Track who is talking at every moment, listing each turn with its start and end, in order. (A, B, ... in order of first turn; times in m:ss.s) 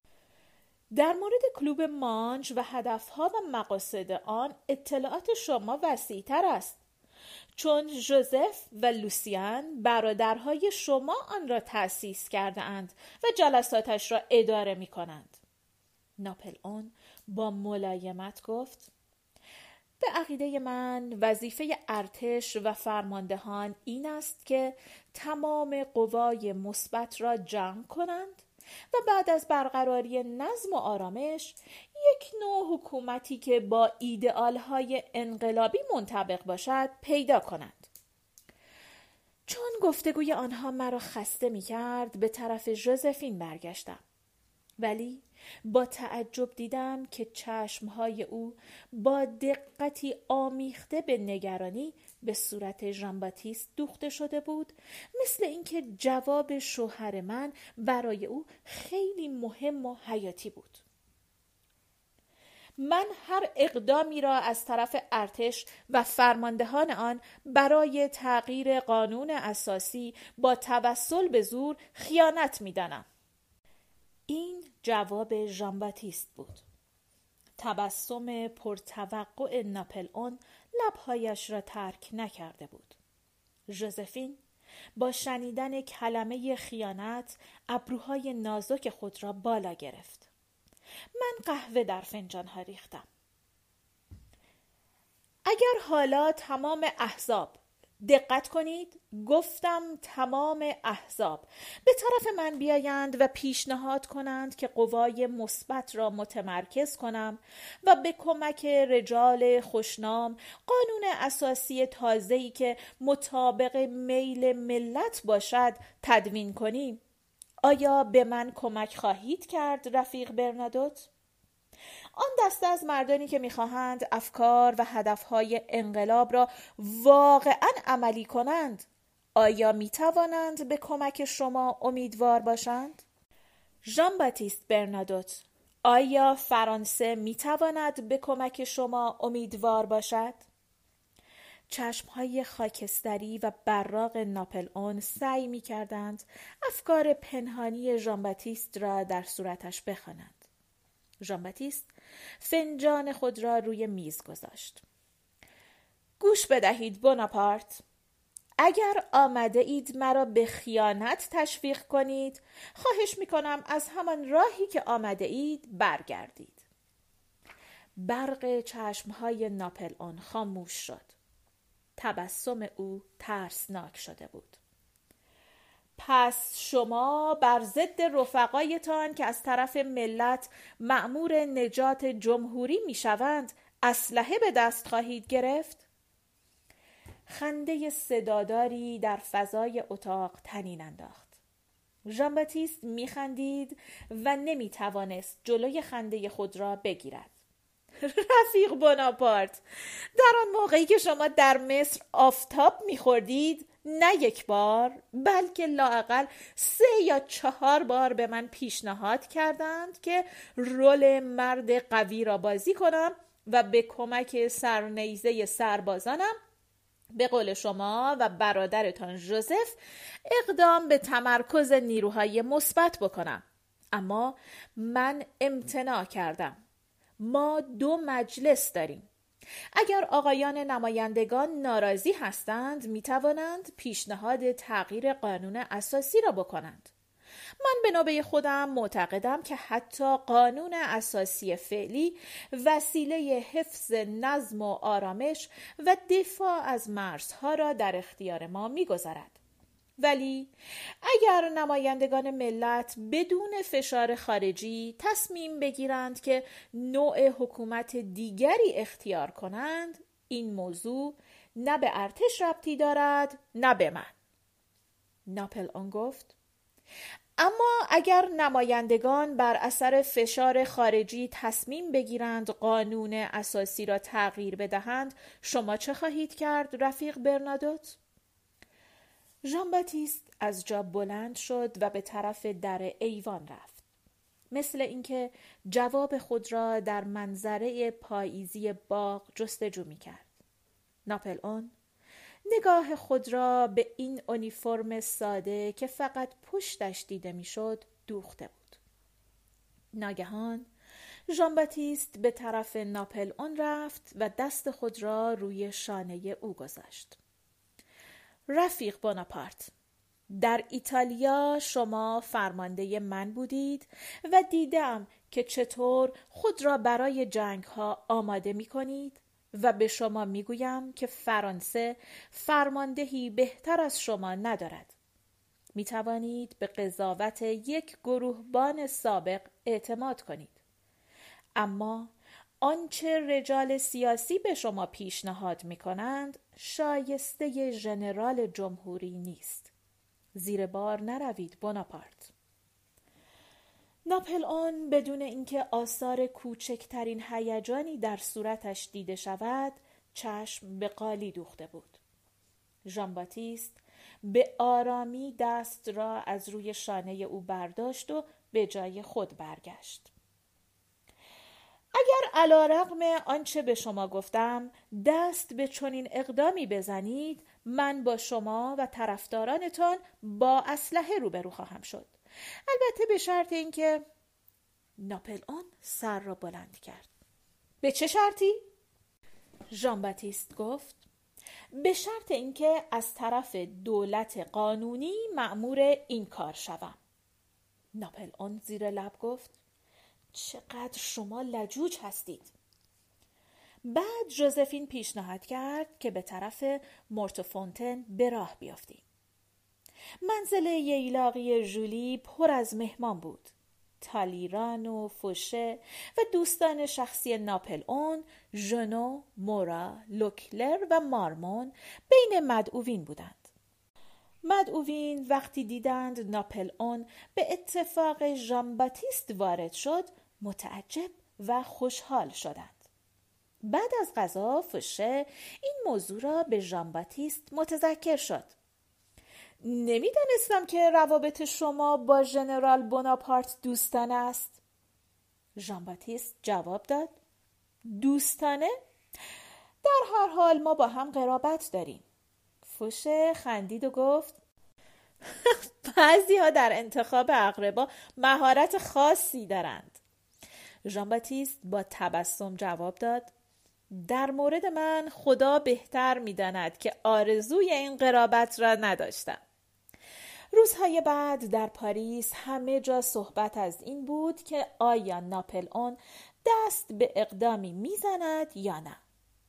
0:00.9-0:06.8 A
0:07.5-0:15.4 A
0:16.2-0:18.9 A
0:20.0-0:37.9 A
0:39.5-0:44.0 A
0:44.8-1:00.8 A
1:02.8-1:13.0 A
1:14.3-1:16.6 A
1:17.6-1:23.0 A
1:23.7-1:24.4 A
1:25.0-1:30.3 A
1:31.2-1:33.0 A
1:35.4-1:57.0 A
1:57.6-2:01.1 A
2:02.2-2:13.0 A
2:13.8-2:20.4 A
2:21.7-2:30.4 A
2:31.2-2:34.8 A
2:36.2-2:37.8 A
2:38.6-2:46.6 A
2:48.0-2:51.1 A
2:52.0-2:54.6 A
2:56.0-3:05.8 A
3:07.3-3:11.4 A
3:12.0-3:17.3 A
3:18.0-3:19.6 A
3:20.2-3:36.4 A
3:37.1-3:46.6 A
3:47.2-3:49.1 A
3:49.7-3:56.9 A
3:57.6-4:09.4 A
4:10.0-4:10.5 A
4:11.0-4:24.1 A
4:25.3-4:26.3 A
4:27.4-4:38.0 A
4:39.4-4:43.8 A
4:44.5-4:50.3 A
4:51.0-4:51.7 A
4:52.5-4:58.8 A
4:59.9-5:00.7 A
5:01.3-5:07.2 A
5:08.5-5:09.7 A
5:10.3-5:24.9 A
5:25.7-5:30.6 A
5:31.5-5:39.7 A
5:40.3-5:42.3 A
5:44.0-5:52.0 A
5:52.9-6:00.1 A
6:01.9-6:12.1 A
6:12.7-6:14.0 A
6:15.0-6:17.1 A
6:17.8-6:18.6 A
6:19.7-6:21.0 A
6:21.8-6:27.0 A
6:28.0-6:29.6 A
6:30.3-6:32.5 A
6:33.8-6:39.0 A
6:40.2-6:53.5 A
6:54.4-7:02.8 A
7:03.6-7:08.5 A
7:09.6-7:14.6 A
7:15.6-7:17.2 A
7:17.8-7:18.7 A
7:19.8-7:22.0 A
7:22.6-7:24.4 A
7:25.3-7:30.0 A
7:30.8-7:33.3 A
7:33.9-7:39.4 A
7:40.5-7:49.0 A